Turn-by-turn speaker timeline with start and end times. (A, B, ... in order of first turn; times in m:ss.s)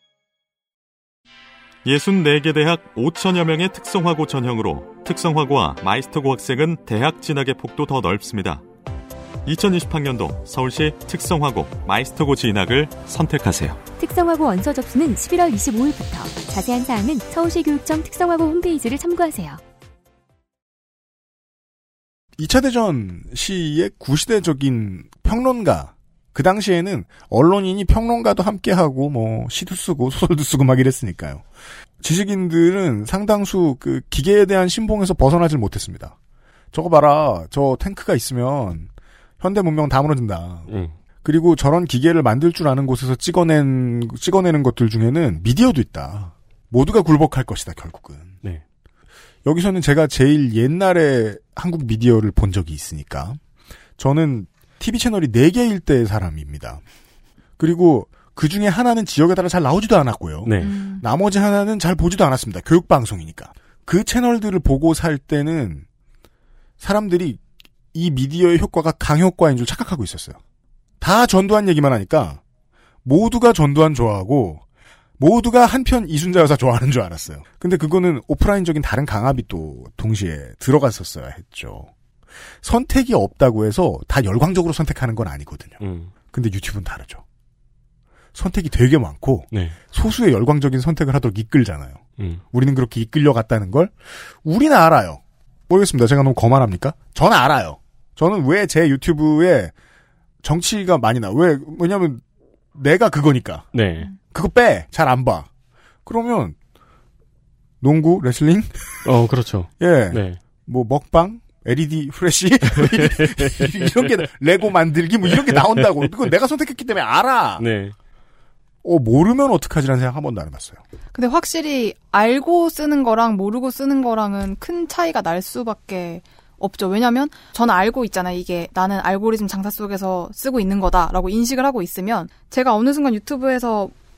0:01.8-0:08.6 A
0:09.4-0:13.8 A
0:14.0-0:19.6 B
0:22.4-0:31.4 C
0:32.0-0:36.2 C
0:36.7-0:38.9 C
0:39.4-0:40.7 C
0:41.2-0:48.4 C
0:49.4-0:53.4 C
0:54.0-0:56.8 C
0:57.6-1:05.8 C
1:00.4-1:00.7 D
1:00.6-1:01.0 E
1:06.8-1:07.4 C
1:07.9-1:10.4 C
1:11.0-1:12.4 C
1:13.0-1:14.6 C
1:15.2-1:21.9 C
1:22.6-1:27.2 C
1:25.8-1:26.1 D
1:28.3-1:39.7 C
1:40.4-1:42.2 C
1:42.7-1:45.5 C
1:43.7-1:44.1 D
1:46.0-1:46.6 C
1:47.8-1:49.0 C
1:49.0-1:50.4 D
1:49.8-1:57.6 C
1:52.8-1:54.0 D
1:55.4-1:55.9 D
1:57.6-1:57.9 D
1:58.8-2:00.8 C
2:01.1-2:13.9 E